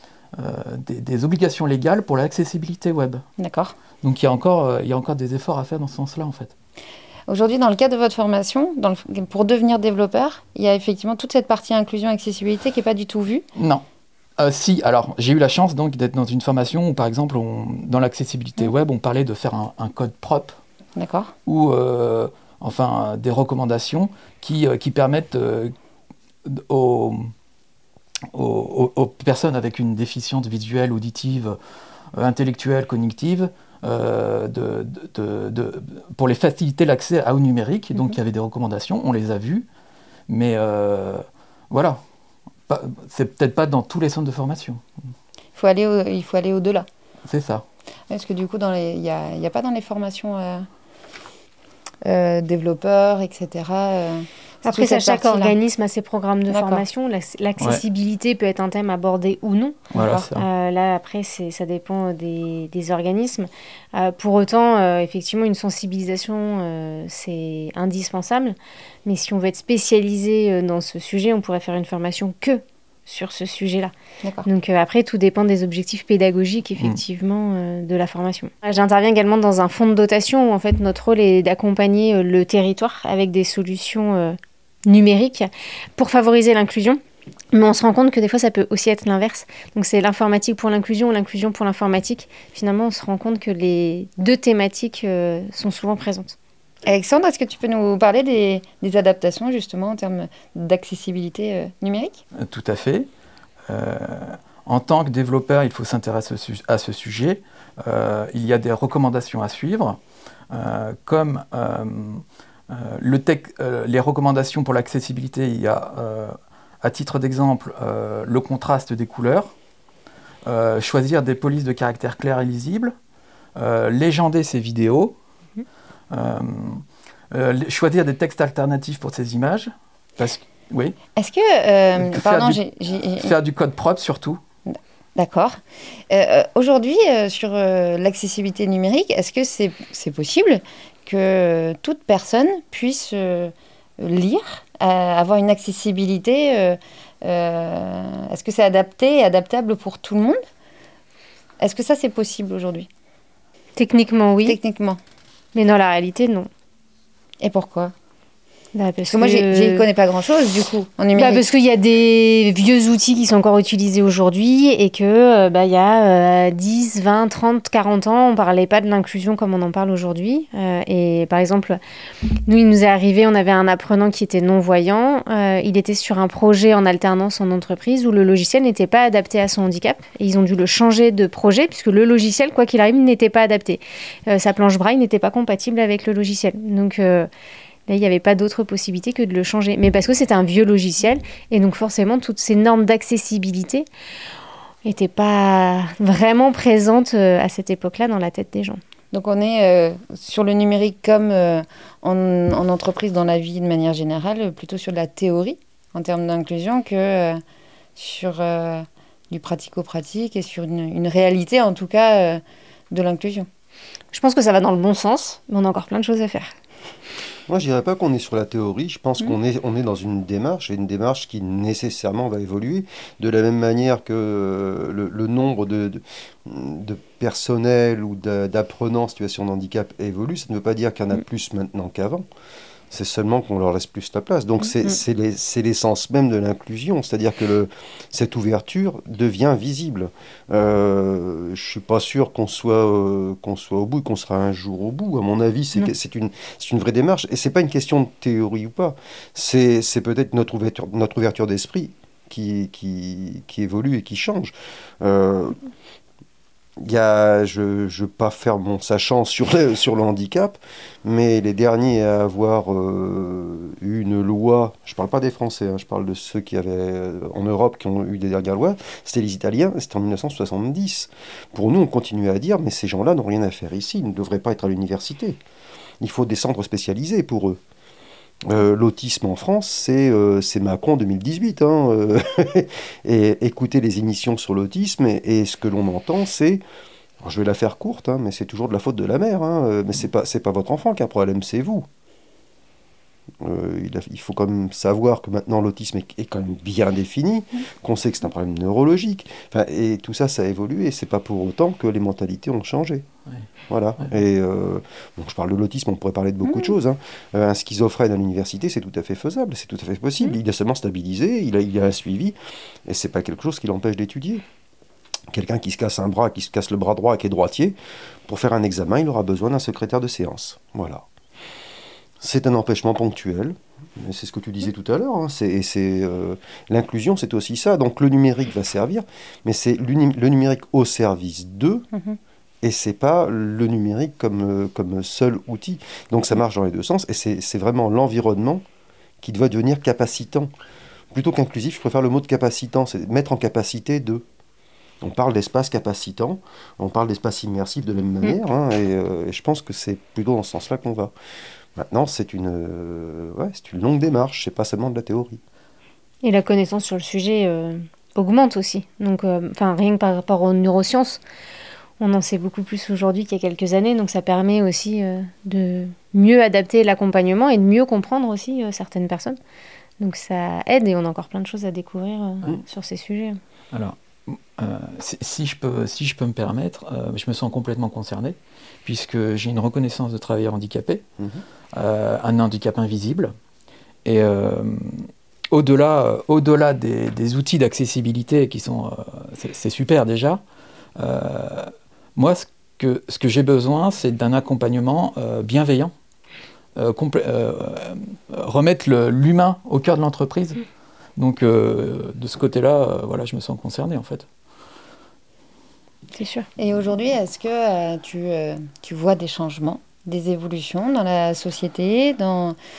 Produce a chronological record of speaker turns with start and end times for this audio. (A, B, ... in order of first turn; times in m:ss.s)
0:00.3-0:03.2 A
0:03.4-0:03.8 B
0:04.0-0:06.5 A
0:07.3-0:13.4 B
0:13.6-0:13.8 A
0:14.4-0:20.6 A
0:21.0-0:21.3 B
0:21.4-0:25.7 A
0:26.4-0:27.3 A
0:28.3-0:31.6 A
0:32.1-0:39.6 A
0:40.3-0:42.0 A
0:42.7-0:44.8 A
0:45.6-0:46.8 B
0:47.2-0:47.6 A
0:48.1-0:50.7 B
0:52.0-0:55.6 B
0:54.6-1:13.9 C
0:56.5-0:56.8 B
0:57.6-0:57.8 A
0:59.9-1:00.3 B
0:59.9-1:00.5 A
1:14.2-1:14.5 B
1:14.4-1:27.0 C
1:27.5-1:36.3 C
1:36.8-1:42.2 B
1:42.4-1:43.1 A
1:43.7-1:50.0 A
1:50.5-1:59.5 A
2:00.4-2:02.9 A
2:03.6-2:05.1 A
2:06.1-2:11.0 A
2:11.2-2:13.3 B
2:12.0-2:12.6 A
2:13.1-2:14.4 A
2:14.7-2:15.6 B
2:16.1-2:30.4 B
2:31.6-2:32.9 B
2:33.8-2:34.6 C
2:34.4-2:35.0 B
2:35.5-2:36.5 C
2:37.4-2:37.9 B
2:38.7-2:39.9 C
2:39.1-2:41.5 B
2:41.1-2:51.8 C
2:52.5-3:07.3 C
3:07.9-3:13.9 C
3:14.8-3:18.8 C
3:19.1-3:27.4 B
3:28.0-3:33.5 B
3:34.1-3:36.5 C
3:37.5-3:52.2 D
3:52.9-4:15.6 D
4:16.8-4:35.4 D
4:36.0-4:37.6 D
4:38.4-4:46.6 D
4:47.2-4:51.9 D
4:53.4-5:03.0 D
5:03.7-5:12.3 D
5:06.4-5:06.7 B
5:12.8-5:14.4 D
5:15.3-5:17.7 D
5:18.3-5:21.0 D
5:22.2-5:31.9 D
5:31.9-5:32.2 B
5:32.6-5:38.6 D
5:39.2-5:40.5 D
5:41.1-5:44.2 D
5:45.0-5:51.1 D
5:51.8-5:55.4 D
5:56.2-6:01.2 C
6:02.0-6:09.4 C
6:10.0-6:13.4 C
6:13.7-6:21.0 A
6:21.7-6:23.3 A
6:24.0-6:30.4 A
6:31.0-6:35.9 A
6:36.8-6:40.6 A
6:41.2-6:44.2 A
6:46.1-6:46.5 C
6:46.6-6:52.6 B